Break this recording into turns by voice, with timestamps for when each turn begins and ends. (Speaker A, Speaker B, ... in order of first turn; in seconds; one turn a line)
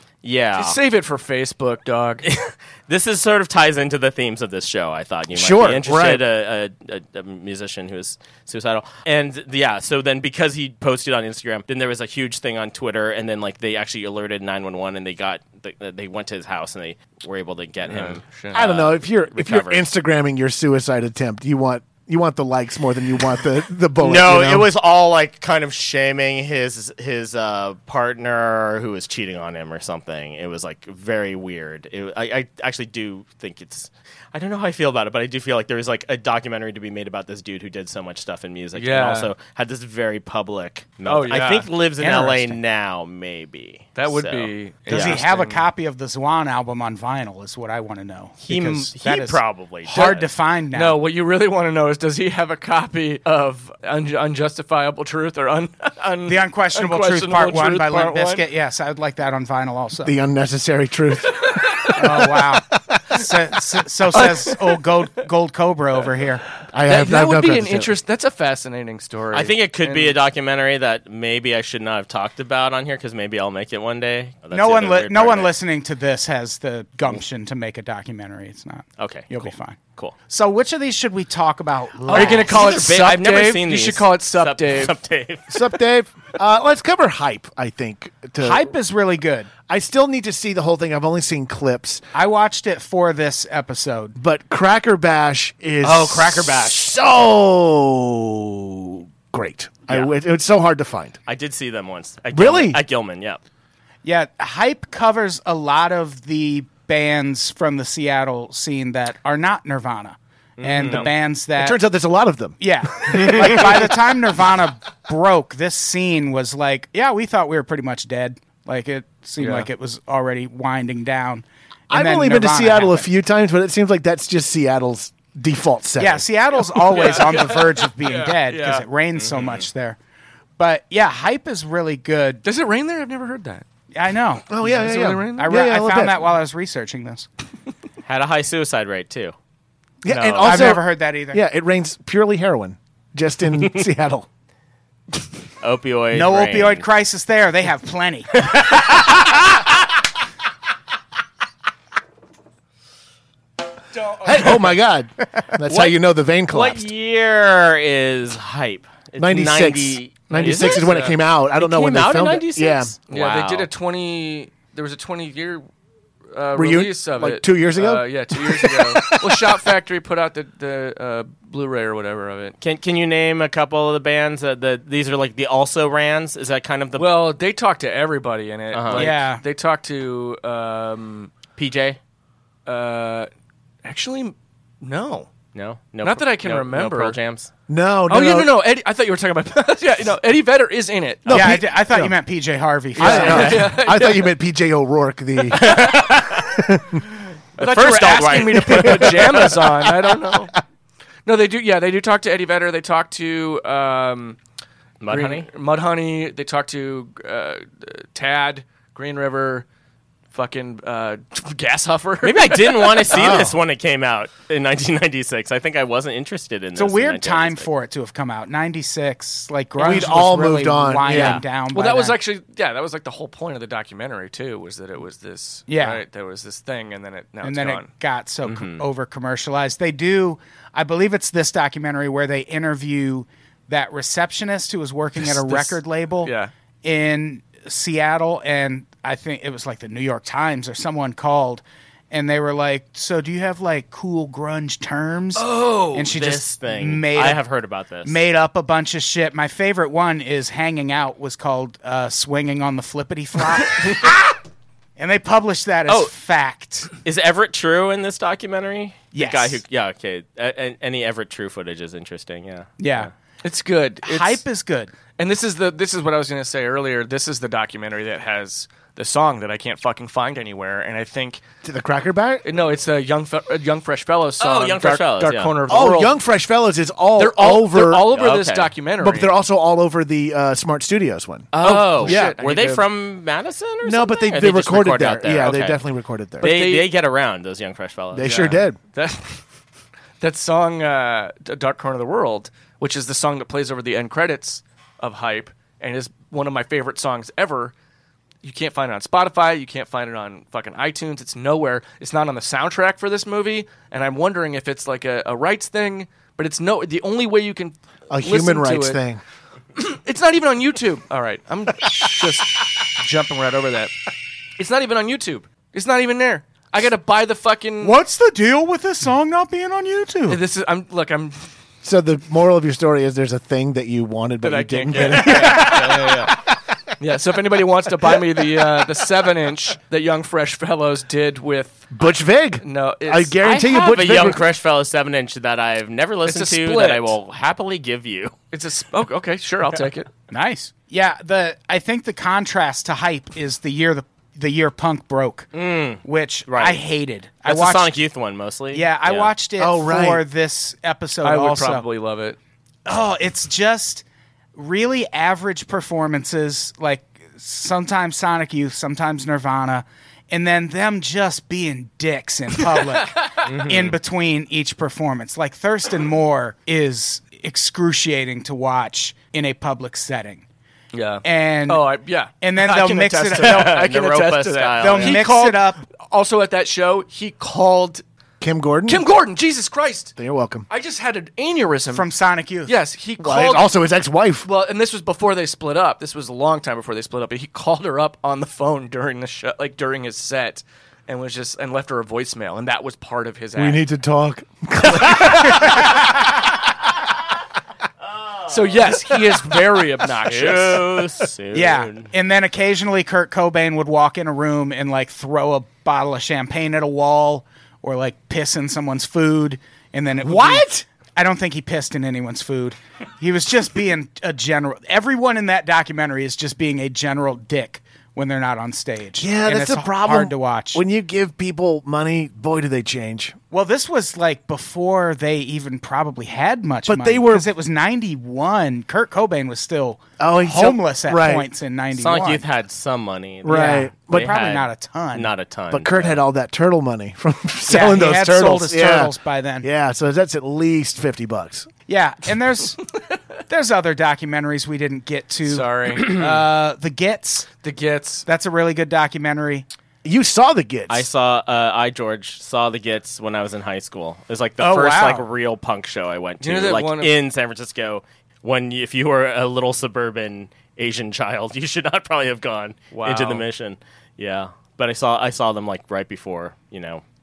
Speaker A: 0.2-0.8
Speaker B: 0.5-2.2
Speaker A: 2.2-19.8
Speaker C: 5.3-6.2
Speaker B: 17.9-18.5
Speaker C: 18.5-24.7
Speaker A: 24.0-45.2
Speaker B: 38.7-39.3
Speaker B: 41.0-41.7
Speaker D: 42.0-42.6
Speaker B: 44.0-45.6
Speaker D: 44.9-51.0
Speaker A: 48.4-50.2
Speaker B: 49.9-58.4
Speaker D: 56.2-60.1
Speaker C: 60.0-62.4
Speaker D: 61.9-66.4
Speaker C: 62.9-63.2
Speaker B: 64.1-64.6
Speaker C: 66.7-67.9
Speaker B: 66.8-70.1
Speaker A: 69.3-75.5
Speaker D: 74.5-82.6
Speaker A: 79.0-80.1
Speaker B: 82.1-84.9
Speaker A: 82.1-85.6
Speaker C: 85.5-88.7
Speaker D: 88.4-89.5
Speaker C: 89.7-92.0
Speaker D: 92.1-94.2
Speaker C: 94.2-101.2
Speaker A: 95.8-96.9
Speaker A: 101.2-103.4
Speaker C: 102.3-102.8
Speaker D: 104.0-111.8
Speaker A: 110.6-111.1
Speaker C: 111.6-113.9
Speaker D: 112.6-123.1
Speaker B: 119.4-119.7
Speaker C: 121.9-126.2
Speaker D: 126.0-130.0
Speaker B: 126.8-128.8
Speaker A: 129.2-129.7
Speaker D: 130.6-132.4
Speaker B: 132.4-133.6
Speaker D: 133.9-134.4
Speaker C: 134.5-136.2
Speaker B: 134.6-135.5
Speaker D: 135.4-137.3
Speaker A: 138.0-139.3
Speaker C: 140.0-144.3
Speaker B: 140.1-140.7
Speaker D: 140.4-141.4
Speaker A: 145.6-146.8
Speaker D: 146.1-148.3
Speaker A: 148.4-149.4
Speaker B: 154.1-154.6
Speaker C: 154.2-156.9
Speaker A: 155.7-156.0
Speaker A: 156.5-161.0
Speaker C: 159.2-162.9
Speaker B: 160.3-161.2
Speaker A: 161.6-163.7
Speaker B: 163.1-165.7
Speaker B: 166.3-172.6
Speaker C: 166.5-169.6
Speaker A: 172.6-177.1
Speaker B: 176.9-181.3
Speaker A: 178.7-179.1
Speaker D: 178.9-179.4
Speaker A: 181.6-182.0
Speaker B: 182.7-183.3
Speaker B: 183.8-185.3
Speaker A: 185.5-187.5
Speaker B: 186.0-187.2
Speaker C: 187.7-188.6
Speaker B: 188.1-191.5
Speaker C: 191.2-192.1
Speaker D: 191.3-193.5
Speaker B: 193.0-194.3
Speaker C: 193.0-197.0
Speaker A: 193.0-193.7
Speaker A: 195.5-196.6
Speaker B: 195.6-195.9
Speaker B: 197.6-200.6
Speaker A: 197.6-199.6
Speaker C: 198.7-200.4
Speaker B: 201.2-204.4
Speaker A: 205.0-205.5
Speaker B: 205.1-209.7
Speaker B: 210.3-213.3
Speaker A: 212.2-217.7
Speaker C: 213.1-213.6
Speaker D: 216.7-222.2
Speaker C: 219.8-221.4
Speaker A: 221.1-221.4
Speaker B: 221.7-227.9
Speaker D: 225.7-226.0
Speaker D: 227.4-236.3
Speaker A: 228.4-228.8
Speaker B: 235.2-236.5
Speaker D: 236.8-247.4
Speaker B: 245.3-246.1
Speaker A: 245.9-248.2
Speaker D: 248.0-254.1
Speaker D: 255.0-256.9
Speaker A: 257.0-263.1
Speaker D: 259.1-259.6
Speaker D: 262.8-263.1
Speaker B: 263.4-264.4
Speaker D: 264.0-264.9
Speaker B: 265.2-271.4
Speaker C: 271.6-272.4
Speaker B: 272.4-276.2
Speaker A: 274.4-275.6
Speaker C: 275.7-278.1
Speaker B: 277.2-279.3
Speaker A: 278.1-278.7
Speaker C: 279.0-282.4
Speaker A: 281.5-285.8
Speaker B: 281.6-282.9
Speaker C: 283.8-286.5
Speaker B: 286.4-286.9
Speaker A: 286.4-288.5
Speaker C: 288.1-288.8
Speaker B: 288.2-289.4
Speaker B: 290.2-297.7
Speaker B: 298.4-309.0
Speaker C: 308.1-309.2
Speaker B: 309.7-314.0
Speaker B: 314.6-318.0
Speaker D: 317.8-320.4
Speaker B: 320.3-321.4
Speaker C: 321.8-326.3
Speaker B: 324.4-326.4
Speaker B: 327.0-331.9
Speaker C: 331.9-334.4
Speaker B: 332.6-333.4
Speaker A: 333.4-338.3
Speaker B: 336.2-337.1
Speaker B: 338.5-340.1
Speaker D: 340.3-345.5
Speaker A: 345.5-346.8
Speaker D: 346.0-347.9
Speaker A: 347.4-349.3
Speaker D: 348.7-351.8
Speaker C: 349.6-350.2
Speaker B: 351.2-352.4
Speaker D: 352.9-354.0
Speaker D: 354.5-370.4
Speaker B: 362.7-363.3
Speaker A: 363.4-363.9
Speaker B: 370.9-378.0
Speaker D: 371.2-371.8
Speaker D: 372.4-373.8
Speaker A: 373.4-375.2
Speaker D: 374.8-375.8
Speaker C: 378.4-379.0
Speaker B: 378.9-380.1
Speaker C: 380.2-380.7
Speaker B: 380.7-382.1
Speaker D: 381.9-382.7
Speaker B: 382.6-383.7
Speaker C: 383.2-384.5
Speaker B: 384.4-393.8
Speaker C: 393.6-396.0
Speaker A: 394.9-395.7
Speaker A: 398.0-399.2
Speaker B: 398.5-401.0
Speaker A: 400.1-402.1
Speaker D: 401.5-420.8
Speaker C: 410.2-410.8
Speaker C: 419.2-423.4
Speaker D: 423.5-432.4
Speaker C: 426.9-427.5
Speaker C: 430.2-431.5
Speaker A: 431.9-436.2
Speaker C: 433.4-434.4
Speaker D: 433.5-435.3
Speaker C: 435.7-441.7
Speaker D: 437.7-439.7
Speaker D: 441.9-442.8
Speaker D: 443.5-447.5
Speaker B: 445.4-446.3
Speaker B: 447.6-448.2
Speaker D: 448.2-449.6
Speaker C: 450.0-451.1
Speaker A: 450.9-467.0
Speaker D: 454.6-455.2
Speaker B: 456.4-457.1
Speaker B: 462.9-463.4